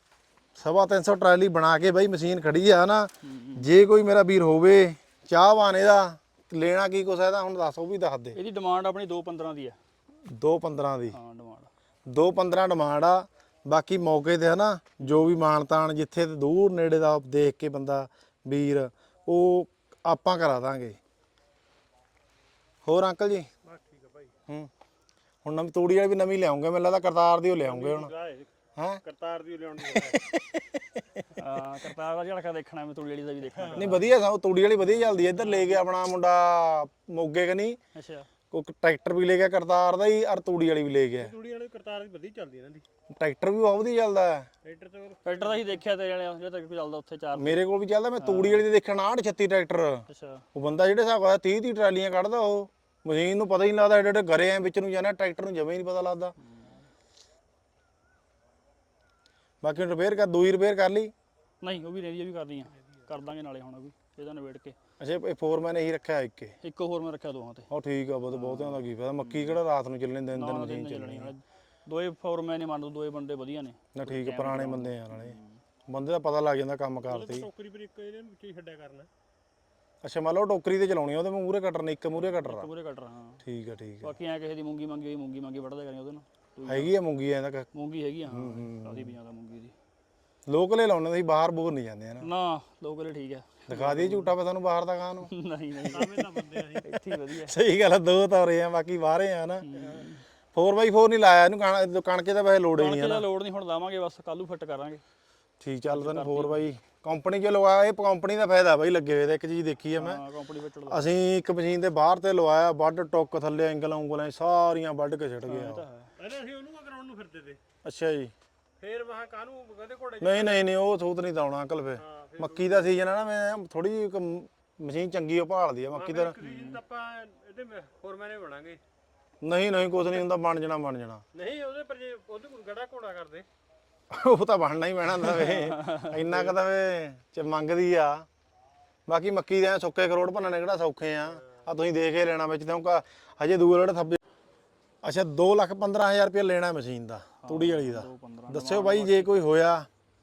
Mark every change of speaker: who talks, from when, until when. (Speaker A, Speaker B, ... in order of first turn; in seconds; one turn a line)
Speaker A: 0.6-8.4
Speaker B: 3.2-3.7
Speaker B: 8.3-9.8
Speaker A: 10.3-11.2
Speaker B: 11.1-11.7
Speaker A: 12.1-21.0
Speaker B: 15.0-15.4
Speaker A: 22.9-23.5
Speaker C: 23.6-24.3
Speaker A: 25.4-28.1
Speaker C: 27.6-28.5
Speaker C: 29.0-30.2
Speaker A: 29.9-31.2
Speaker B: 31.4-34.1
Speaker A: 33.7-37.8
Speaker B: 34.8-35.8
Speaker B: 38.0-38.3
Speaker A: 38.5-41.3
Speaker C: 41.2-42.9
Speaker A: 43.2-44.5
Speaker C: 44.6-45.8
Speaker B: 45.2-47.6
Speaker A: 47.4-56.3
Speaker B: 48.2-48.7
Speaker B: 50.1-50.4
Speaker B: 56.4-56.9
Speaker A: 59.6-61.1
Speaker B: 61.6-64.8
Speaker A: 65.0-66.5
Speaker B: 66.6-67.7
Speaker A: 67.7-71.3
Speaker B: 68.3-69.6
Speaker B: 70.3-75.6
Speaker A: 73.9-75.4
Speaker A: 75.9-77.5
Speaker C: 77.1-79.1
Speaker A: 80.0-82.7
Speaker B: 82.2-83.4
Speaker A: 83.4-84.1
Speaker B: 84.0-86.9
Speaker A: 86.7-87.7
Speaker B: 87.7-89.7
Speaker A: 88.3-89.2
Speaker A: 90.5-92.3
Speaker B: 92.2-94.3
Speaker A: 93.7-95.3
Speaker B: 95.2-97.6
Speaker C: 95.9-97.0
Speaker A: 97.1-103.3
Speaker B: 99.6-100.2
Speaker B: 102.7-105.0
Speaker A: 105.6-110.2
Speaker B: 105.9-106.7
Speaker B: 109.9-111.1
Speaker A: 110.9-115.8
Speaker B: 115.5-116.1
Speaker C: 116.2-117.6
Speaker A: 117.8-118.3
Speaker C: 118.8-120.7
Speaker A: 120.2-126.4
Speaker C: 122.0-123.0
Speaker C: 125.9-128.8
Speaker B: 126.4-126.8
Speaker A: 129.4-131.2
Speaker C: 131.3-133.5
Speaker A: 134.1-138.3
Speaker B: 135.7-136.2
Speaker A: 139.1-144.2
Speaker A: 145.0-149.9
Speaker B: 147.4-149.4